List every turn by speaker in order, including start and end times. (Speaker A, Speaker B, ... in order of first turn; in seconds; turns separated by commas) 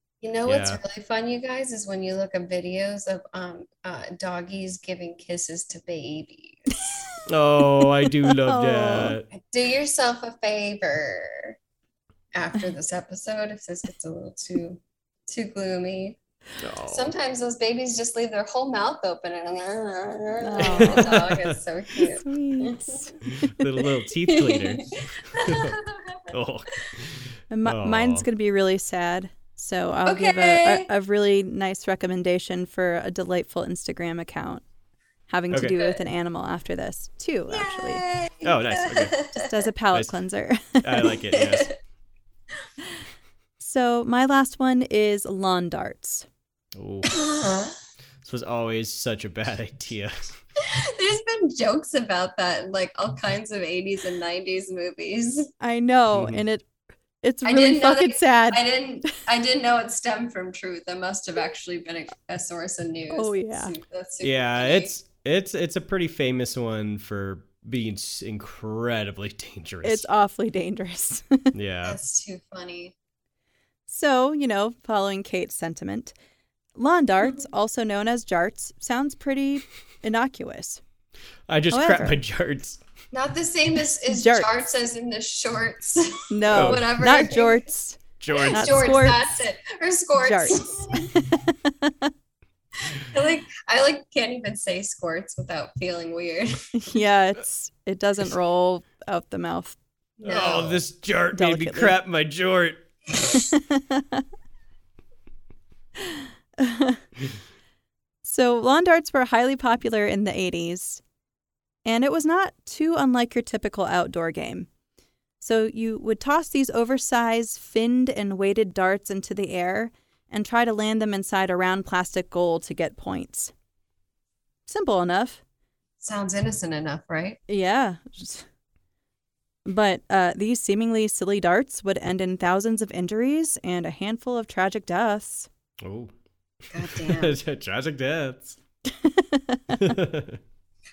Speaker A: 0.2-6.9, Speaker B: 0.5-0.8, Speaker C: 6.8-7.2, Speaker B: 7.3-9.3, Speaker C: 7.8-9.2, Speaker A: 9.3-11.6, Speaker A: 12.3-16.2, Speaker B: 16.6-17.1, Speaker A: 16.9-23.1, Speaker C: 20.4-21.1, Speaker B: 20.6-21.6, Speaker C: 22.1-23.7, Speaker B: 23.2-25.8, Speaker A: 24.2-26.3, Speaker B: 26.3-28.3, Speaker C: 27.5-34.6, Speaker A: 30.1-30.9, Speaker C: 35.3-38.0, Speaker B: 35.5-35.8, Speaker A: 37.5-39.5, Speaker B: 38.4-39.2, Speaker C: 39.3-40.9, Speaker B: 40.8-41.7, Speaker A: 41.3-41.7, Speaker C: 43.6-46.3, Speaker B: 46.8-47.1, Speaker A: 47.1-47.8, Speaker B: 48.2-50.4, Speaker A: 50.6-55.5, Speaker C: 55.6-56.7, Speaker B: 56.1-56.4, Speaker C: 57.2-59.2, Speaker A: 57.5-64.9, Speaker C: 63.1-63.7, Speaker B: 64.2-70.1, Speaker C: 69.8-71.5, Speaker B: 71.5-72.0, Speaker A: 71.8-72.9, Speaker C: 73.9-76.1, Speaker C: 76.8-80.8, Speaker B: 81.5-82.8, Speaker C: 81.7-82.2, Speaker A: 83.1-87.7, Speaker C: 84.1-84.5, Speaker C: 86.3-88.0, Speaker B: 86.5-86.9, Speaker B: 88.2-89.0, Speaker A: 88.3-91.1, Speaker C: 88.5-89.3, Speaker C: 90.2-92.1, Speaker A: 92.8-96.7, Speaker C: 96.7-99.8, Speaker A: 100.2-100.8, Speaker B: 100.2-102.8, Speaker C: 101.3-102.0, Speaker C: 103.3-104.2, Speaker C: 106.0-107.0, Speaker C: 108.2-111.0, Speaker C: 111.8-114.7, Speaker C: 115.4-123.5, Speaker C: 124.7-125.4, Speaker A: 126.0-127.4, Speaker C: 127.5-128.5, Speaker C: 129.7-135.5, Speaker B: 135.8-136.1, Speaker A: 136.7-137.4, Speaker B: 136.8-138.6, Speaker C: 138.9-139.9, Speaker B: 139.7-140.4